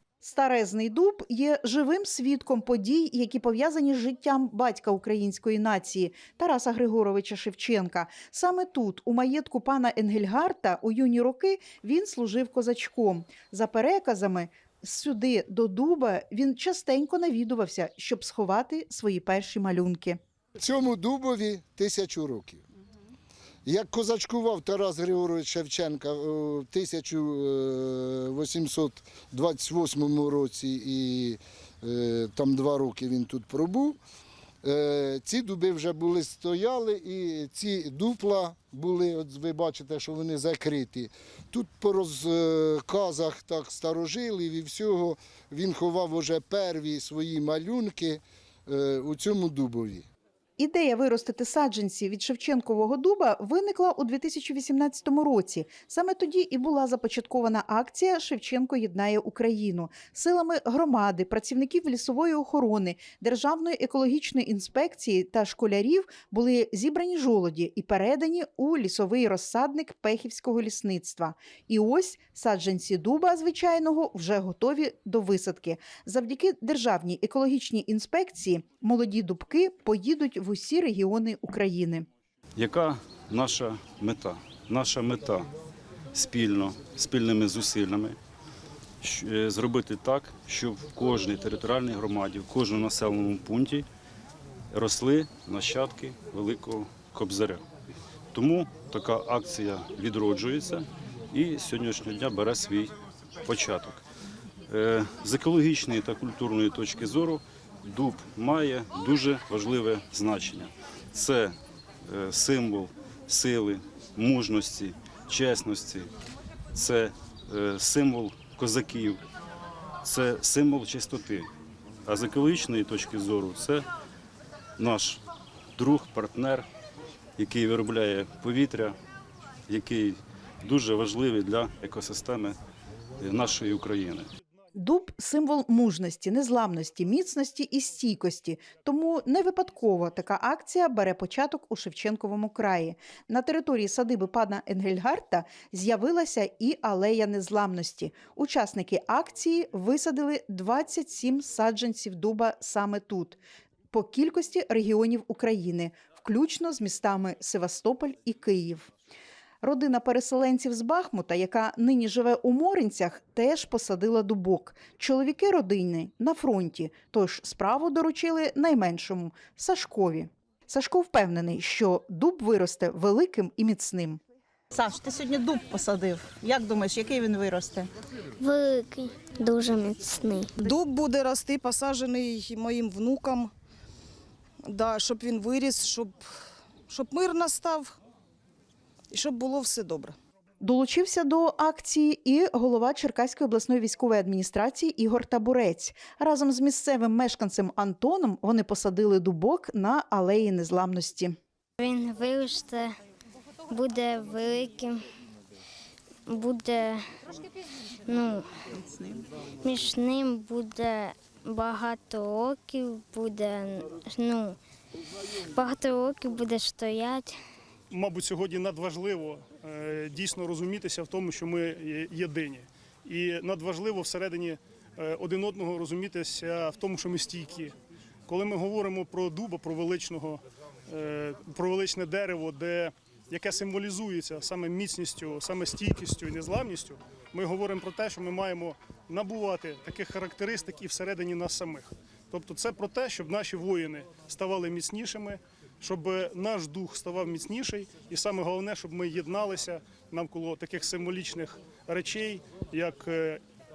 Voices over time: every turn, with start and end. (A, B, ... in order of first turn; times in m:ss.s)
0:00.2-0:20.2 A
0:20.6-0:22.6 B
0:23.7-0:34.0 B
0:34.6-0:50.1 B
0:50.6-1:22.1 A
1:22.6-1:25.5 C
1:26.1-1:28.2 C
1:29.0-1:33.9 C
1:34.7-1:37.6 C
1:38.3-1:42.9 C
1:43.4-1:44.0 C
1:44.7-1:51.6 C
1:52.1-1:56.1 C
1:56.7-1:59.2 C
2:00.0-2:01.5 C
2:02.0-2:03.9 C
2:04.8-2:05.2 C
2:05.8-2:06.7 C
2:07.4-2:09.0 C
2:09.7-2:12.6 C
2:13.2-2:14.3 C
2:14.8-2:33.4 A
2:33.9-2:38.9 A
2:39.6-2:54.2 A
2:55.0-2:57.8 D
2:58.4-3:00.5 E
3:00.6-3:03.5 F
3:04.6-3:06.3 F
3:06.9-3:08.0 F
3:09.1-3:10.2 F
3:10.6-3:21.4 A
3:21.8-3:22.9 E
3:23.7-3:25.0 E
3:26.3-3:27.1 E
3:28.1-3:28.5 E
3:29.6-3:34.6 E
3:35.4-3:37.4 E
3:37.9-3:47.7 G
3:48.3-4:13.4 G